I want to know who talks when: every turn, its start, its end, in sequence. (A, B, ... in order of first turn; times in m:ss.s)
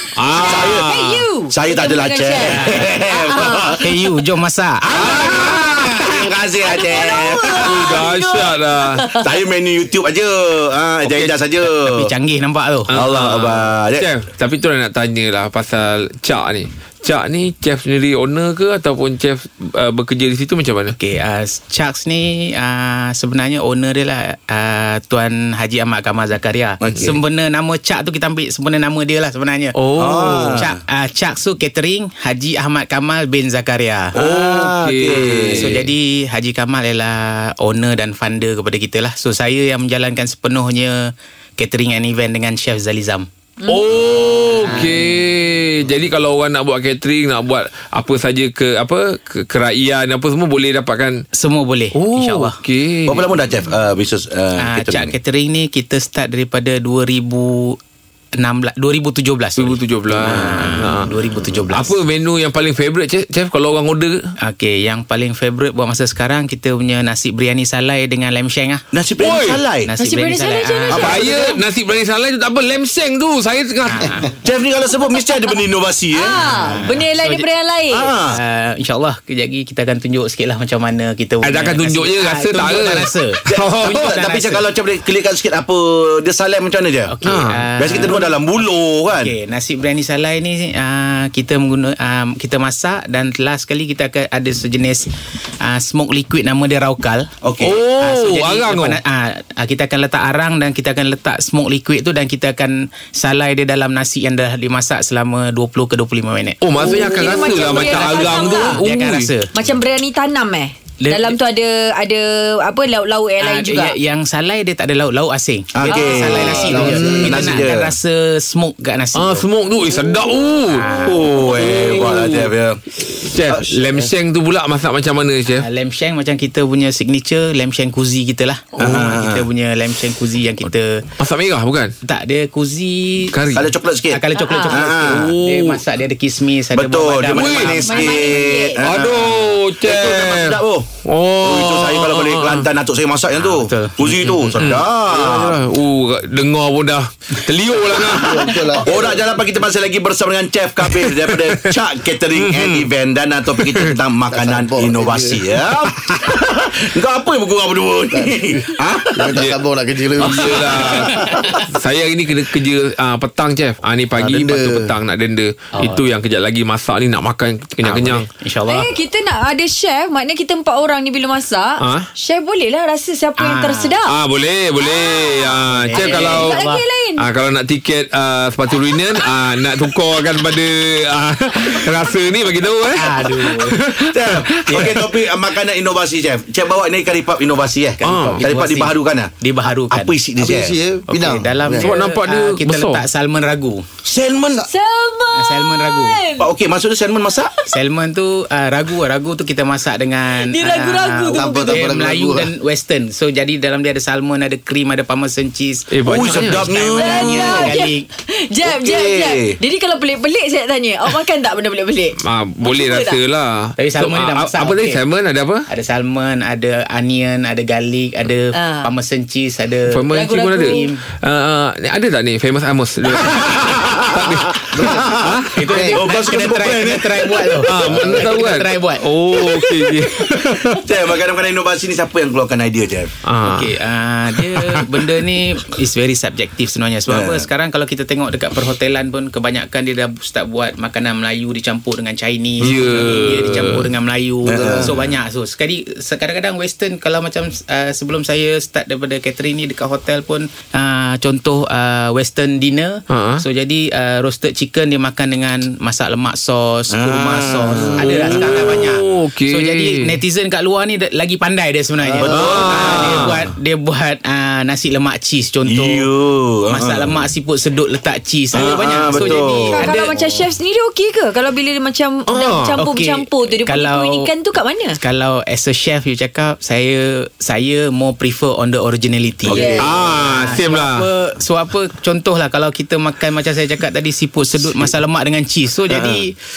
0:00.2-0:01.3 A
0:00.3-0:03.8 B
0:00.4-0:00.9 C
0:01.5-0:03.8 C
0:02.4-0:02.9 D
0:03.8-0:05.5 D
0:04.9-0:07.9 C
0:04.9-0:06.1 A
0:06.6-0:09.3 B
0:07.6-0:09.0 A
0:09.2-0:12.1 C
0:11.1-0:12.9 D
0:12.9-0:14.1 C
0:12.9-0:21.0 A
0:21.0-0:29.8 D
0:26.8-0:27.2 C
0:29.8-0:30.6 A
0:30.0-0:30.7 C
0:30.6-0:34.2 D
0:34.2-0:35.8 C
0:34.2-0:35.9 A
0:35.2-0:43.3 D
0:43.7-0:51.2 A
0:44.6-0:45.1 D
0:51.4-0:52.6 D
0:51.9-0:53.3 A
0:53.1-0:55.1 C
0:54.6-0:57.8 D
0:58.4-1:02.0 D
0:59.6-1:04.3 A
1:00.3-1:00.6 C
1:04.4-1:08.9 D
1:08.9-1:09.9 C
1:09.2-1:09.6 A
1:09.9-1:11.4 D
1:10.0-1:11.5 B
1:10.9-1:14.2 A
1:13.9-1:14.3 D
1:14.4-1:16.4 C
1:16.1-1:18.1 B
1:16.5-1:17.5 D
1:17.9-1:18.4 C
1:18.3-1:24.7 D
1:21.4-1:24.1 A
1:23.5-1:27.2 C
1:27.1-1:35.1 D
1:27.2-1:28.1 A
1:27.8-1:29.3 C
1:35.6-1:37.3 D
1:37.4-1:37.8 C
1:37.6-1:39.0 A
1:37.9-1:46.6 D
1:46.6-1:49.3 A
1:46.8-1:48.8 B
1:47.2-1:49.5 D
1:49.5-1:54.0 B
1:51.0-1:51.3 D
1:53.4-1:59.4 D
1:55.7-1:57.9 C
1:55.9-1:56.8 B
1:56.8-1:57.4 E
1:59.1-2:02.5 A
2:00.7-2:01.3 D
2:01.0-2:02.8 C
2:03.1-2:05.7 A
2:05.6-2:11.0 D
2:08.8-2:09.4 C
2:11.2-2:12.0 A
2:12.0-2:13.5 D
2:13.3-2:13.7 A
2:13.6-2:15.3 C
2:14.1-2:18.4 D
2:14.4-2:14.8 B
2:15.1-2:15.8 A
2:16.7-2:20.9 C
2:17.3-2:17.8 A
2:17.8-2:18.8 B
2:18.8-2:22.7 A
2:21.4-2:25.6 C
2:23.3-2:24.8 D
2:24.6-2:28.6 A
2:28.1-2:29.0 E
2:28.5-2:29.2 D
2:28.8-2:39.4 C
2:30.8-2:31.7 A
2:32.4-2:32.9 A
2:33.6-2:33.9 A
2:34.3-2:35.5 E
2:38.1-2:38.6 E
2:39.2-2:41.0 E
2:40.2-2:48.3 A
2:41.1-2:41.6 D
2:44.2-2:44.9 E
2:45.8-2:46.0 D
2:47.8-2:49.0 D
2:48.7-2:54.1 B
2:51.8-2:52.1 A
2:53.4-2:53.9 D
2:54.1-2:56.6 A
2:54.8-2:57.2 B
2:55.7-2:56.8 D
2:57.2-3:05.2 A
3:03.0-3:03.8 D
3:04.1-3:09.3 C
3:08.0-3:10.2 D
3:08.0-3:08.5 A
3:09.9-3:10.8 C
3:10.4-3:11.9 E
3:11.1-3:13.9 D
3:11.8-3:13.0 A
3:14.0-3:14.7 C
3:14.7-3:16.5 B
3:15.4-3:16.2 D
3:16.4-3:17.6 C
3:17.7-3:28.1 D
3:20.4-3:21.9 B
3:21.3-3:22.5 E
3:25.9-3:26.8 A
3:26.1-3:27.7 C
3:26.9-3:33.2 B
3:28.6-3:29.6 C
3:32.2-3:35.7 A
3:33.8-3:35.0 D
3:35.7-3:41.0 D
3:38.5-3:38.9 B
3:39.9-3:45.7 A
3:40.1-3:40.9 B
3:43.2-3:45.3 C
3:44.7-3:45.1 E
3:45.5-3:50.2 D
3:45.7-3:46.0 E
3:46.0-3:47.7 C
3:47.6-3:50.8 A
3:50.8-3:53.1 C
3:53.3-3:53.8 A
3:53.4-4:26.1 D
3:54.4-3:55.2 A
3:57.1-3:57.4 C
4:02.6-4:03.9 A
4:04.5-4:04.9 E
4:04.5-4:05.1 C
4:13.1-4:13.4 A
4:16.9-4:18.9 C
4:17.8-4:20.2 A
4:22.0-4:22.6 E
4:22.2-4:23.4 A
4:22.3-4:23.3 C
4:25.7-4:27.2 C
4:26.7-4:30.4 D
4:28.5-4:29.9 C
4:29.2-4:35.0 B
4:32.3-4:32.8 A
4:32.8-4:34.3 D
4:35.0-4:46.4 D
4:39.4-4:39.9 C
4:39.5-4:39.9 B
4:39.8-4:41.1 A
4:45.9-4:46.2 C